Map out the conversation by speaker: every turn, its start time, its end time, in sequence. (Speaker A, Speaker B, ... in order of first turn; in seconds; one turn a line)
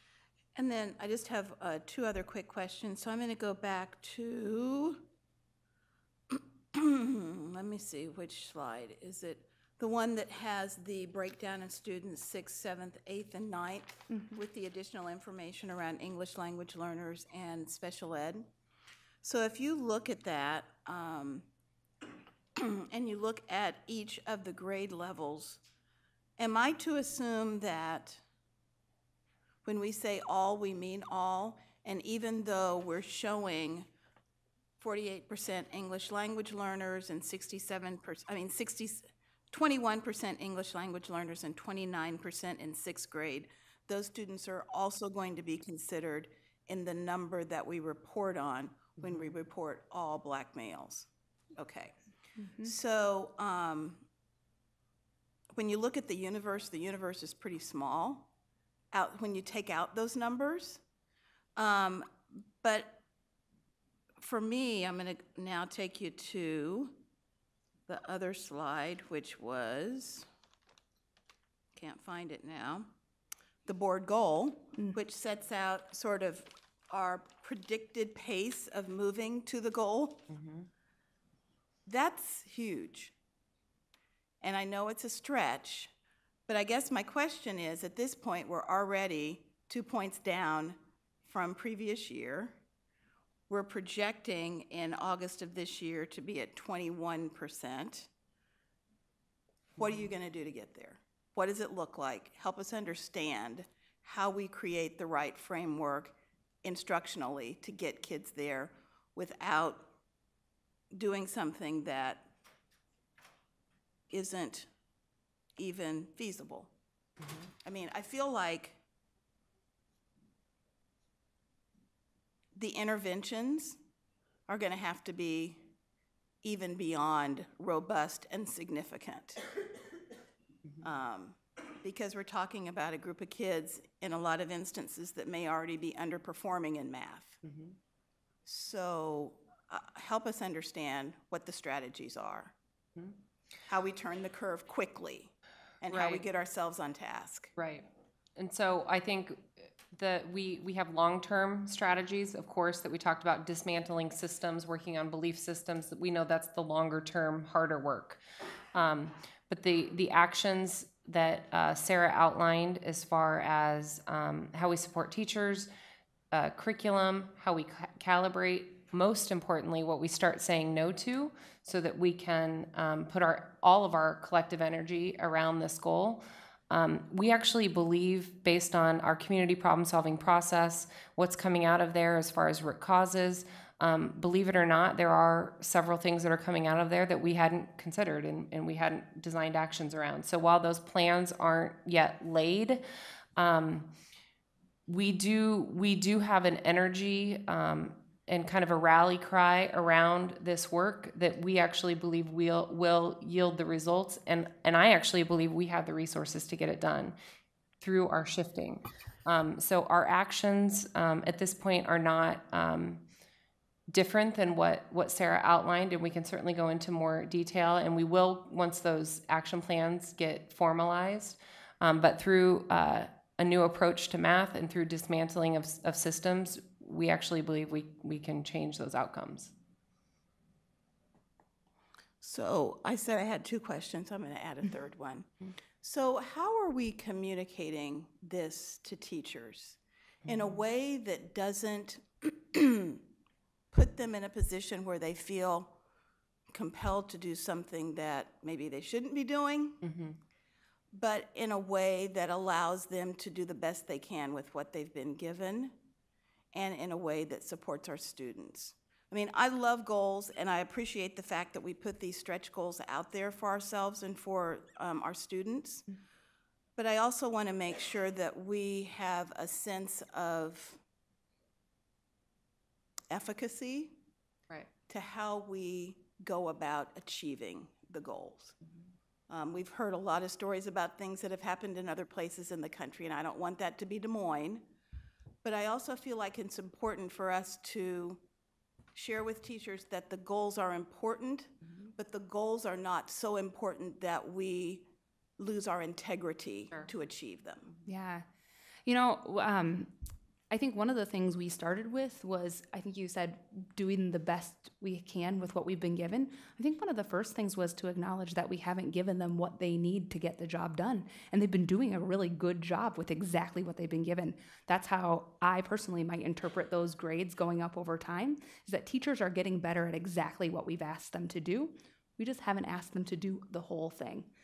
Speaker A: 0.5-5.0
Speaker A: 6.3-18.5
Speaker B: 14.1-14.4
Speaker A: 19.2-21.4
Speaker A: 22.6-25.6
Speaker A: 26.4-28.2
Speaker A: 29.6-33.9
Speaker A: 34.8-51.9
Speaker B: 52.4-52.7
Speaker A: 52.6-54.0
Speaker A: 55.5-58.3
Speaker A: 58.9-60.8
Speaker A: 61.5-63.0
Speaker A: 64.2-67.0
Speaker A: 67.9-70.3
Speaker A: 71.7-72.9
Speaker A: 73.6-80.3
Speaker C: 80.3-80.6
Speaker A: 81.8-83.1
Speaker A: 84.4-85.9
Speaker A: 86.5-92.6
Speaker A: 93.5-98.1
Speaker A: 99.8-109.9
Speaker A: 110.9-112.3
Speaker A: 114.1-114.7
Speaker A: 115.5-116.7
Speaker A: 117.6-118.8
Speaker A: 122.5-123.8
Speaker A: 124.5-125.7
Speaker A: 126.4-129.4
Speaker A: 130.8-137.4
Speaker C: 137.4-137.7
Speaker A: 138.4-142.5
Speaker A: 143.7-147.5
Speaker C: 145.9-146.2
Speaker C: 147.6-158.2
Speaker C: 158.7-165.7
Speaker C: 166.3-192.8
Speaker C: 193.3-193.9
Speaker C: 194.9-207.2
Speaker C: 207.8-213.0
Speaker C: 213.9-229.5
Speaker A: 232.2-235.3
Speaker A: 235.8-243.0
Speaker C: 240.2-240.6
Speaker A: 243.7-245.7
Speaker A: 246.5-249.8
Speaker C: 249.8-250.2
Speaker A: 250.9-255.7
Speaker A: 256.5-265.8
Speaker A: 266.8-270.8
Speaker A: 273.1-273.9
Speaker A: 274.9-278.6
Speaker A: 279.3-284.6
Speaker A: 285.4-288.2
Speaker A: 288.9-297.7
Speaker B: 297.9-298.2
Speaker B: 298.9-299.9
Speaker B: 300.5-324.3